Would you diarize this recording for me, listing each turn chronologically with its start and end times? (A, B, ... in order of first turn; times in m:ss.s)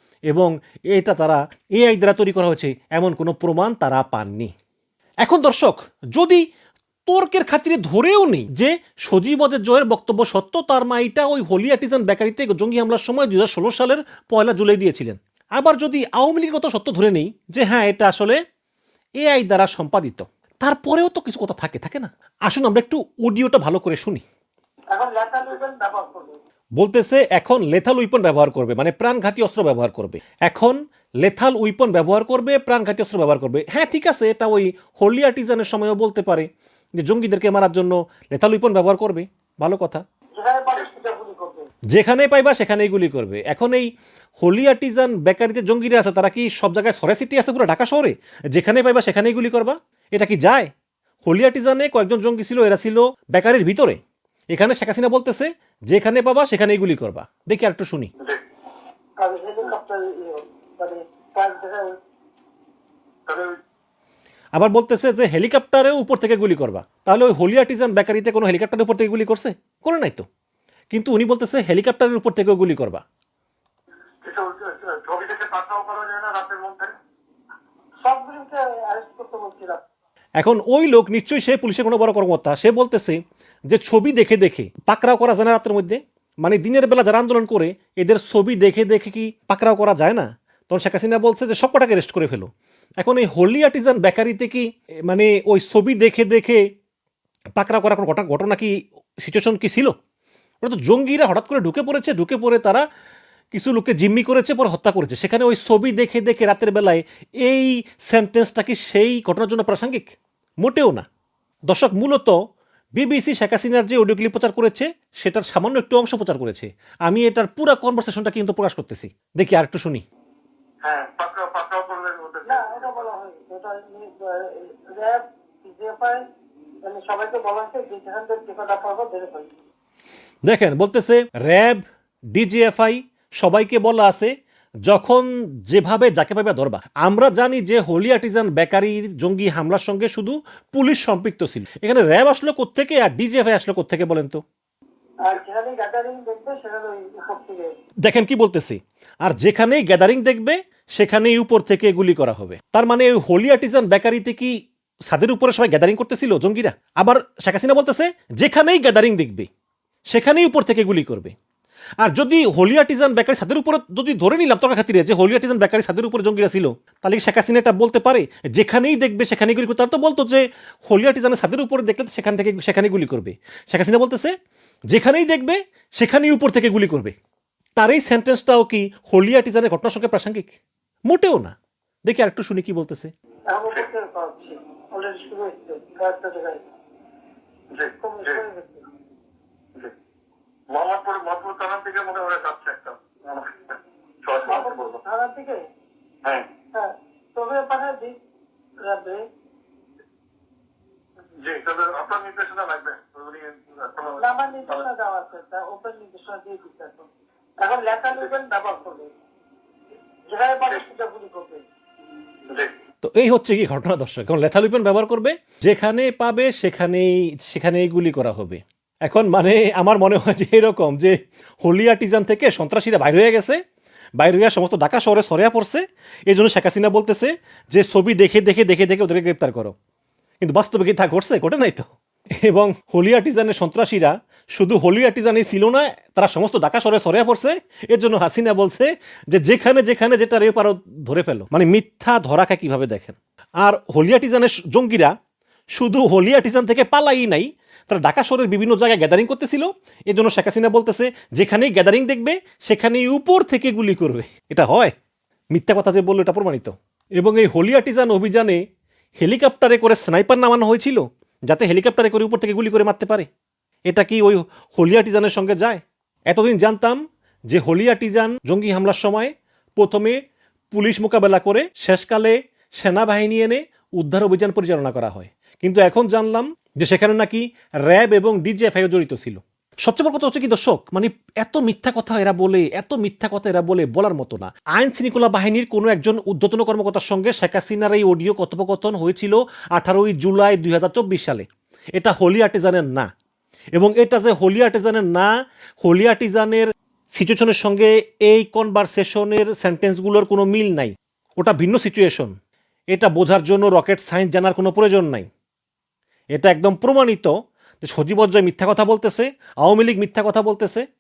0:00.3-0:04.5 A
0:05.2-0:06.4 A
0:07.1-0:18.4 A
0:19.2-0:24.2 A
0:24.9-0:26.4 B
0:26.8-0:40.0 A
0:40.4-0:41.7 B
0:41.9-0:50.7 A
0:51.2-0:54.0 A
0:54.5-0:58.1 A
0:59.2-1:01.9 B
1:03.3-1:03.6 C
1:04.6-1:10.3 A
1:10.9-1:13.0 A
1:14.2-1:17.0 C
1:18.0-1:19.8 B
1:20.4-1:36.6 A
1:37.6-1:40.0 A
1:40.6-1:42.8 A
1:43.5-1:51.1 A
1:51.7-1:52.4 A
1:53.0-2:00.0 A
2:00.8-2:02.9 C
2:02.5-2:06.2 B
2:06.8-2:09.5 B
2:10.5-2:14.3 A
2:14.9-2:24.4 A
2:25.2-2:27.7 B
2:28.0-2:34.6 A
2:35.1-2:39.5 A
2:40.1-2:41.3 A
2:42.0-2:54.3 A
2:54.9-2:57.1 A
2:57.8-3:00.5 A
3:01.1-3:01.5 A
3:02.0-3:03.1 A
3:03.5-3:06.6 B
3:07.7-3:08.4 C
3:08.0-3:08.9 B
3:10.7-3:15.0 C
3:14.4-3:15.6 B
3:16.7-3:18.2 B
3:18.8-3:19.2 B
3:21.4-3:24.8 C
3:24.2-3:27.1 B
3:27.6-3:29.1 B
3:30.3-3:31.6 B
3:33.0-3:43.6 A
3:44.2-3:49.8 A
3:50.4-3:51.9 A
3:52.4-4:05.1 A
4:05.7-4:14.9 A
4:15.5-4:18.6 A
4:19.2-4:23.3 A
4:23.9-4:30.2 A
4:30.7-4:53.1 A
4:53.8-5:02.3 A
5:02.9-5:05.3 A
5:06.3-5:10.9 A